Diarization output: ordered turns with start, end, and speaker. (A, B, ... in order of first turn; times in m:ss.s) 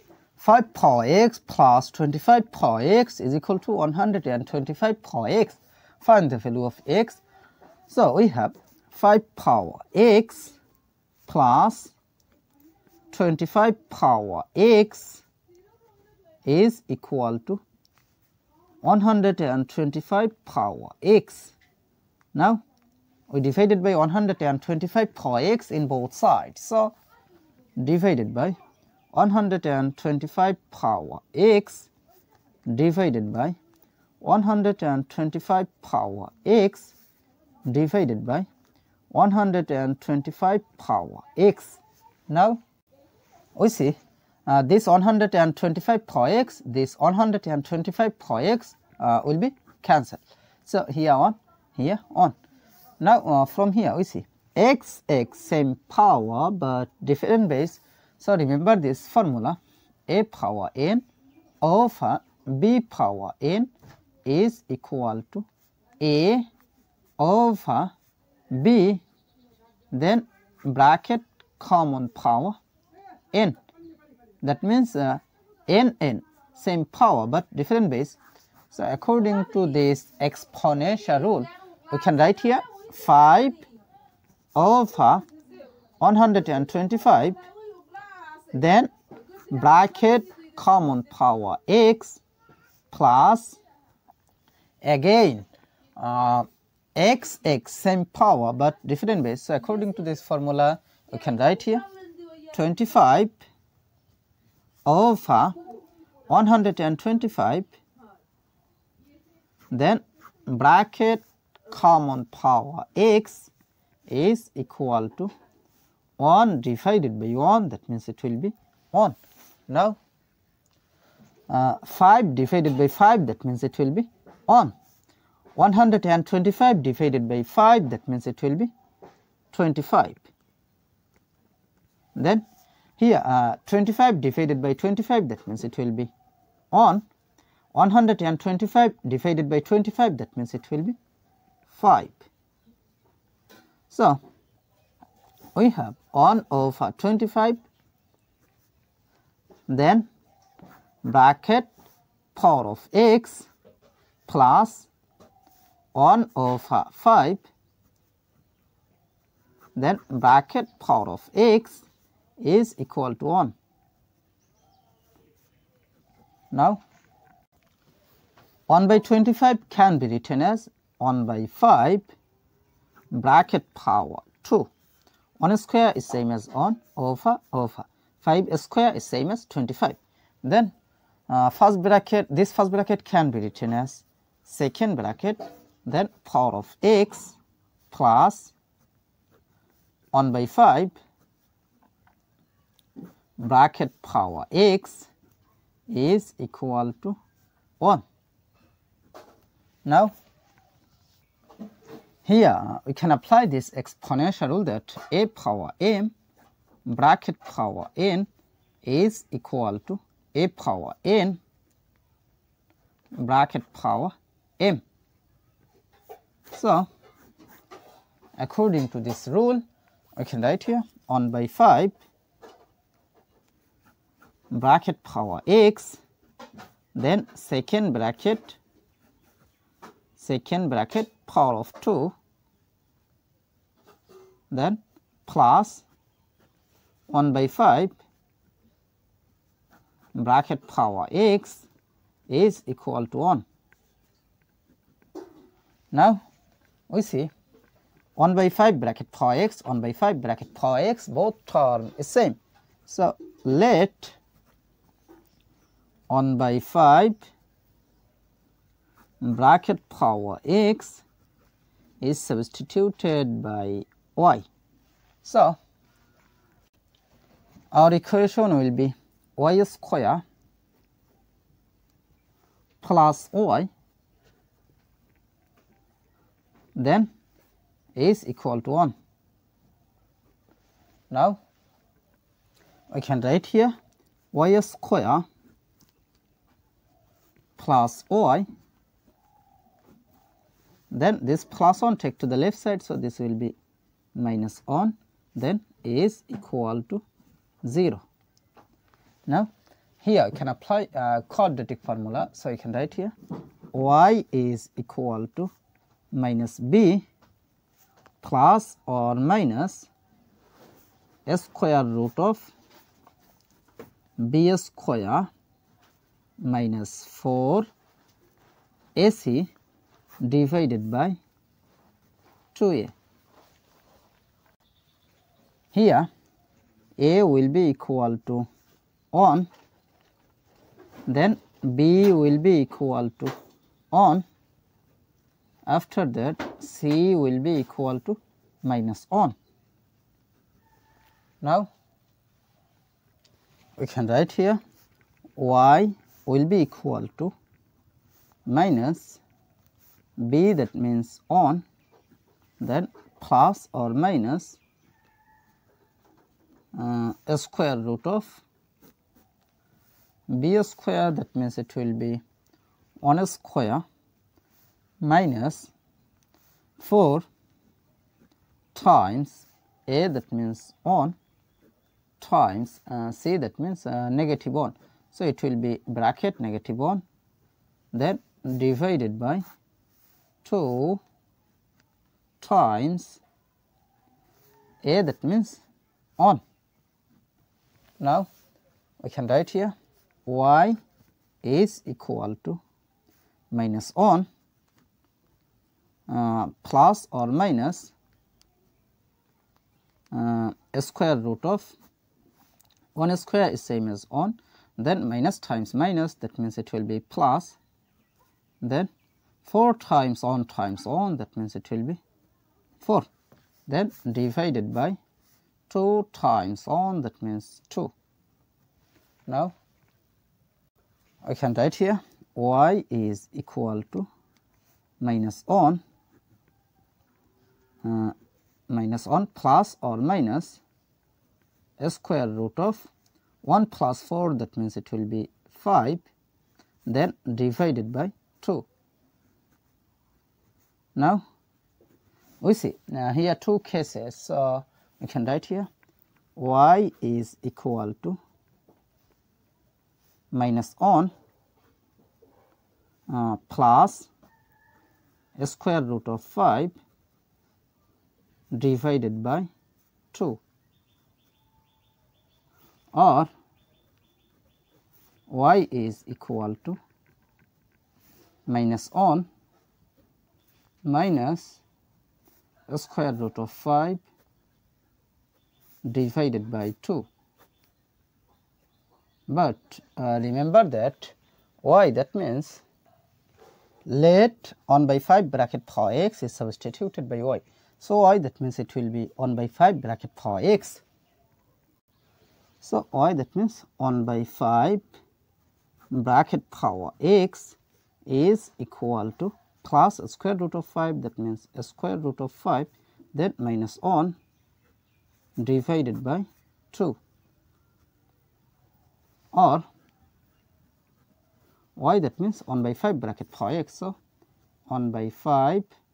0:00.4-0:07.2 A
0:07.9-0:10.6 A
0:11.3-0:11.9 A
0:13.1-0:15.2 A
0:16.4-0:17.6 A
0:18.8-0:21.5 A
0:22.3-0:22.6 A
0:23.3-0:26.9 A
0:27.8-0:28.6 A
0:29.1-0:31.9 A
0:32.7-0:33.6 A
0:34.2-0:36.9 A
0:37.6-0:38.5 A
0:39.1-0:42.6 A
0:43.5-0:52.4 A
0:53.0-1:01.0 A
1:01.6-1:03.7 A
1:04.2-1:05.4 A
1:06.0-1:06.5 A
1:07.2-1:07.9 A
1:08.5-1:09.0 A
1:09.9-1:12.6 A
1:13.3-1:13.6 A
1:14.4-1:18.2 A
1:18.7-1:23.6 A
1:24.5-1:25.2 A
1:26.0-1:27.4 A
1:28.5-1:28.9 A
1:29.5-1:32.2 A
1:32.9-1:33.6 A
1:34.8-1:41.8 A
1:42.5-1:43.4 A
1:44.8-1:45.6 A
1:46.3-1:47.7 A
1:49.7-1:53.5 A
1:54.1-1:55.3 A
1:56.2-1:59.2 A
1:59.7-2:00.0 A
2:01.5-2:04.7 A
2:05.5-2:08.7 A
2:09.5-2:10.2 A
2:12.1-2:12.4 A
2:13.0-2:16.1 A
2:16.7-2:17.0 A
2:17.7-2:21.0 A
2:21.7-2:22.3 A
2:23.9-2:24.2 A
2:25.5-2:27.6 A
2:29.7-2:30.1 A
2:31.0-2:31.7 A
2:32.3-2:33.5 A
2:34.3-2:34.9 A
2:35.9-2:37.4 A
2:39.8-2:41.8 A
2:42.4-2:43.5 A
2:46.5-2:46.8 A
2:48.7-2:52.1 A
2:53.1-2:54.7 A
2:55.4-3:00.7 A
3:01.3-3:07.4 A
3:07.9-3:08.5 A
3:10.1-3:10.9 A
3:13.4-3:15.1 A
3:15.9-3:17.2 A
3:19.8-3:20.1 A
3:22.2-3:26.1 A
3:26.8-3:28.3 A
3:28.8-3:31.4 A
3:33.2-3:34.8 A
3:36.5-3:36.9 A
3:38.4-3:39.6 A
3:40.2-3:42.0 A
3:44.5-3:46.0 A
3:46.9-3:48.6 A
3:50.2-3:52.1 A
3:54.5-3:55.8 A
3:57.1-3:57.9 A
4:00.1-4:01.6 A
4:02.3-4:03.4 A
4:05.9-4:06.2 A
4:06.9-4:07.3 A
4:08.2-4:14.2 A
4:16.1-4:17.2 A
4:19.2-4:21.0 A
4:22.0-4:24.4 A
4:25.2-4:25.6 A
4:27.7-4:30.2 A
4:32.8-4:33.7 A
4:36.7-4:37.1 A
4:37.9-4:38.9 A
4:41.1-4:41.4 A
4:42.9-4:43.8 A
4:44.3-4:45.2 A
4:47.6-4:48.4 A
4:50.9-4:53.5 A
4:54.1-4:57.0 A
4:57.6-4:58.0 A
5:00.0-5:03.1 A
5:03.7-5:05.5 A
5:06.1-5:07.0 A
5:08.2-5:09.9 A
5:11.3-5:12.5 A
5:14.2-5:15.3 A
5:16.4-5:17.7 A
5:18.9-5:19.5 A
5:20.2-5:21.2 A
5:22.5-5:22.9 A
5:25.7-5:26.1 A
5:27.0-5:28.5 A
5:29.1-5:29.5 A
5:31.1-5:33.3 A
5:33.9-5:34.2 A
5:35.6-5:39.3 A
5:41.4-5:41.7 A
5:43.8-5:44.6 A
5:45.4-5:47.3 A
5:48.4-5:49.2 A
5:50.2-5:51.6 A
5:52.6-5:54.6 A
5:56.7-5:58.4 A
6:00.3-6:02.2 A
6:03.0-6:03.8 A
6:05.0-6:05.7 A
6:06.8-6:07.2 A
6:08.7-6:11.2 A
6:12.2-6:17.0 A
6:17.9-6:19.4 A
6:20.4-6:21.0 A
6:22.4-6:23.2 A
6:24.8-6:25.6 A
6:28.0-6:28.3 A
6:29.0-6:29.7 A
6:30.2-6:30.8 A
6:31.4-6:32.6 A
6:33.5-6:34.3 A
6:36.1-6:37.9 A
6:40.1-6:41.7 A
6:42.9-6:47.6 A
6:48.6-6:48.9 A
6:49.4-6:52.0 A
6:52.8-6:53.1 A
6:53.7-6:55.0 A
6:55.7-6:57.9 A
6:59.3-6:59.5 A
7:01.2-7:04.1 A
7:05.0-7:05.8 A
7:07.8-7:08.1 A
7:08.7-7:10.6 A
7:11.8-7:12.9 A
7:13.4-7:16.0 A
7:16.8-7:18.7 A
7:20.9-7:21.2 A
7:22.4-7:25.7 A
7:26.4-7:28.2 A
7:30.3-7:31.1 A
7:33.1-7:34.1 A
7:35.4-7:36.8 A
7:38.5-7:39.5 A
7:40.1-7:40.4 A
7:42.9-7:43.3 A
7:45.3-7:46.8 A
7:48.4-7:49.3 A
7:50.8-7:51.6 A
7:52.7-7:54.0 A
7:55.8-7:57.1 A
7:59.3-8:02.6 A
8:03.8-8:10.8 A
8:12.6-8:14.9 A
8:15.9-8:24.2 A
8:25.4-8:27.0 A
8:29.3-8:29.6 A
8:31.8-8:34.0 A
8:34.7-8:35.7 A